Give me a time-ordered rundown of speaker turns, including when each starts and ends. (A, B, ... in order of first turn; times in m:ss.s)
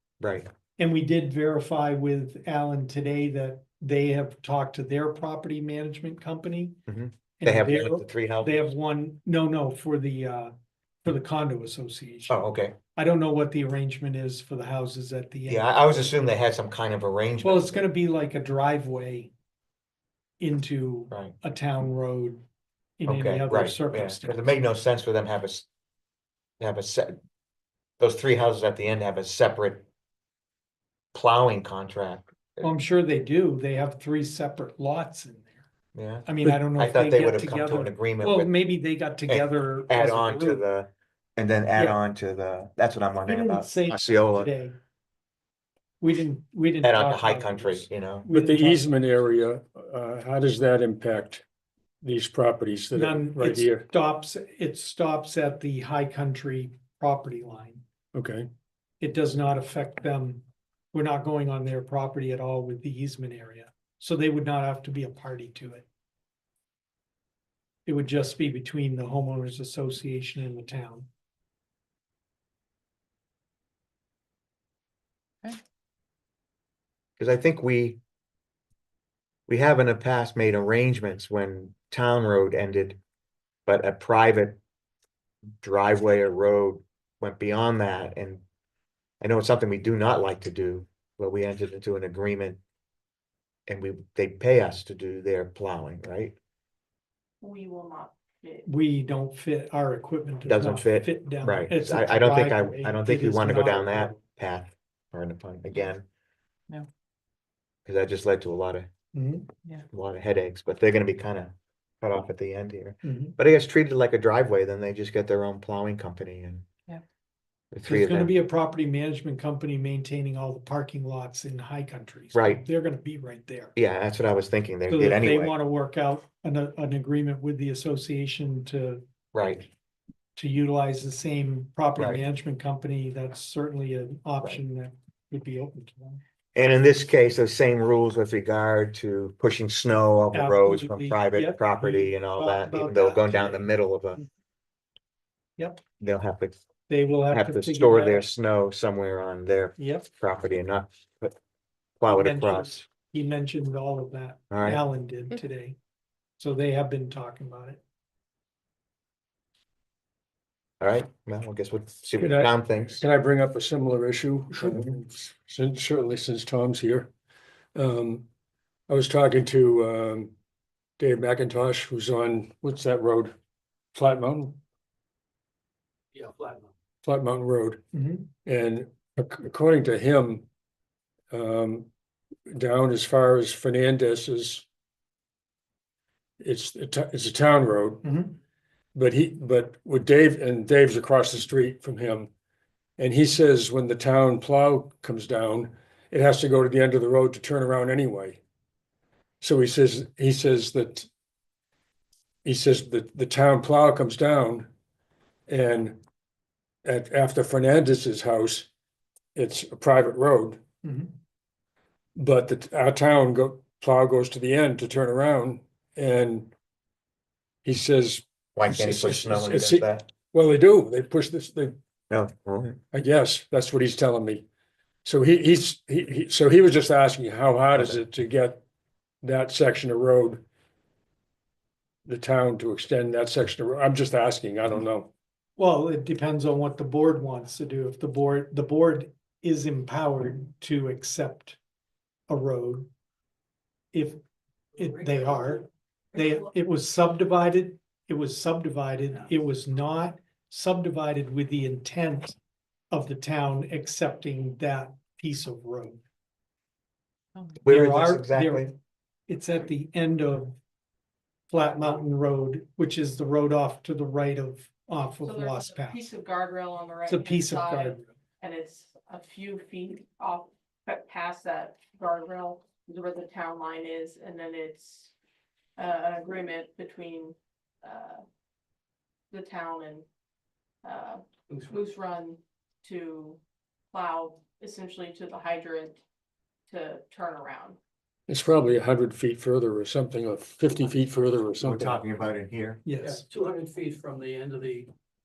0:00.2-0:00.5 A
0:00.8-0:06.8 B
0:06.9-0:08.7 A
0:07.4-0:10.5 B
0:11.0-0:12.4 B
0:12.3-0:12.8 A
0:13.0-0:15.7 B
0:15.5-0:17.8 A
0:17.4-0:19.3 B
0:20.4-0:22.4 B
0:23.0-0:24.4 B
0:23.1-0:25.7 A
0:26.6-0:27.2 A
0:28.0-0:29.8 A
0:31.1-0:32.6 A
0:32.6-0:35.6 B
0:36.0-0:38.5 A
0:36.2-0:40.6 B
0:39.3-0:44.5 A
0:43.2-0:44.8 B
0:46.0-0:48.9 B
0:46.8-0:48.3 A
0:48.3-0:51.4 C
0:52.0-0:53.8 C
0:52.9-0:57.8 B
0:58.1-0:58.5 C
0:59.0-1:05.9 B
1:07.9-1:11.1 B
1:17.2-1:18.0 A
1:19.5-1:23.0 A
1:23.7-1:24.6 A
1:25.6-1:28.4 A
1:29.2-1:32.6 A
1:33.7-1:36.3 A
1:37.4-1:38.7 D
1:38.7-1:44.2 B
1:40.4-1:46.0 A
1:47.9-1:48.9 A
1:49.1-1:49.5 B
1:49.9-1:56.7 A
1:53.0-1:53.4 B
1:57.7-1:58.3 A
1:57.9-2:03.7 B
2:02.3-2:02.6 A
2:03.8-2:05.5 A
2:04.9-2:09.0 B
2:09.3-2:09.7 A
2:10.4-2:16.2 B
2:16.5-2:24.2 A
2:20.3-2:24.2 B
2:25.6-2:25.8 B
2:26.0-2:26.6 A
2:26.9-2:28.2 B
2:27.3-2:31.4 A
2:29.8-2:30.1 B
2:32.0-2:32.8 A
2:32.1-2:35.8 B
2:34.5-2:34.8 A
2:36.4-2:37.8 B
2:40.8-2:43.0 A
2:42.2-2:47.1 C
2:44.6-2:44.9 A
2:47.7-2:48.2 C
2:48.9-2:50.3 C
2:51.0-2:53.3 C
2:53.9-2:54.6 C
2:56.1-2:56.7 E
2:57.0-2:57.8 C
2:57.9-2:58.3 B
2:58.4-3:00.5 C
3:01.3-3:01.9 C
3:02.5-3:04.7 C
3:06.4-3:08.1 C
3:08.0-3:08.4 B
3:08.9-3:12.3 C
3:13.0-3:18.4 C
3:19.4-3:21.1 C
3:22.4-3:24.7 C
3:25.5-3:26.0 C
3:26.8-3:28.7 C
3:29.3-3:30.6 C
3:30.8-3:31.1 B
3:32.2-3:36.5 C
3:37.6-3:41.8 C
3:38.6-3:40.0 A
3:42.1-3:42.8 A
3:42.9-3:44.4 C
3:45.0-3:48.6 C
3:47.7-3:48.0 A
3:49.2-3:50.4 C
3:52.0-3:55.1 C
3:55.6-4:01.6 B
4:02.3-4:02.9 B
4:03.9-4:04.2 B
4:04.7-4:12.4 B
4:12.9-4:16.0 B
4:17.6-4:18.7 A
4:17.6-4:18.7 B
4:19.3-4:20.6 B
4:21.5-4:26.0 B
4:25.2-4:35.1 D
4:27.1-4:28.1 B
4:35.8-4:38.2 D
4:39.3-4:40.1 D
4:40.8-4:43.4 D
4:43.9-4:46.0 D
4:46.7-4:47.8 D
4:48.3-4:52.0 C
4:51.6-4:52.8 A
4:52.8-4:53.3 B
4:53.1-4:54.9 E